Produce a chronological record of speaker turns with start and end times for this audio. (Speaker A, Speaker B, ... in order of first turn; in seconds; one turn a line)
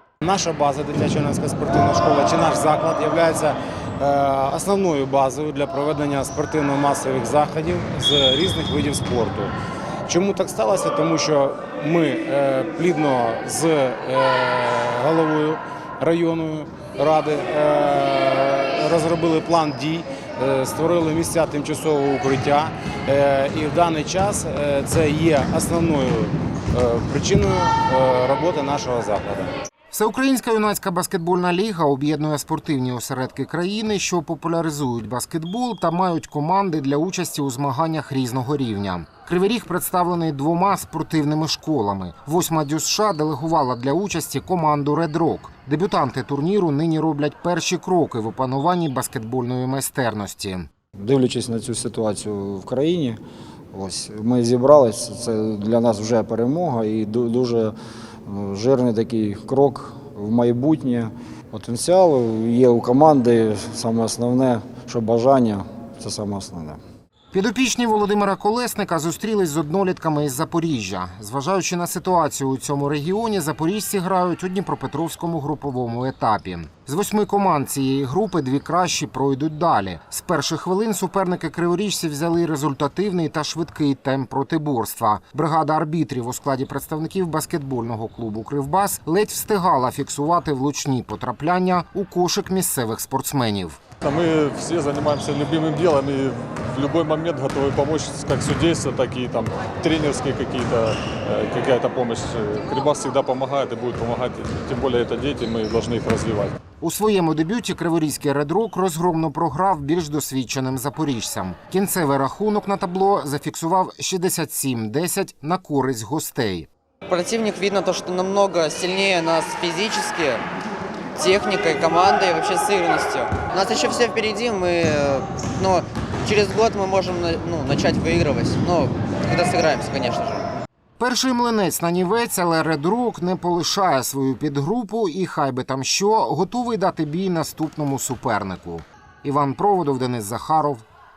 Speaker A: 0.2-9.5
Speaker A: 10.1-29.5
Speaker B: 29.9-50.7
Speaker C: 51.0-53.2
Speaker C: 53.7-57.7
Speaker C: 58.2-66.8
Speaker B: 67.3-93.8
Speaker D: 94.0-106.5
Speaker B: 106.8-116.7
Speaker E: 117.1-120.4
Speaker E: 121.2-130.5
Speaker B: 131.0-140.8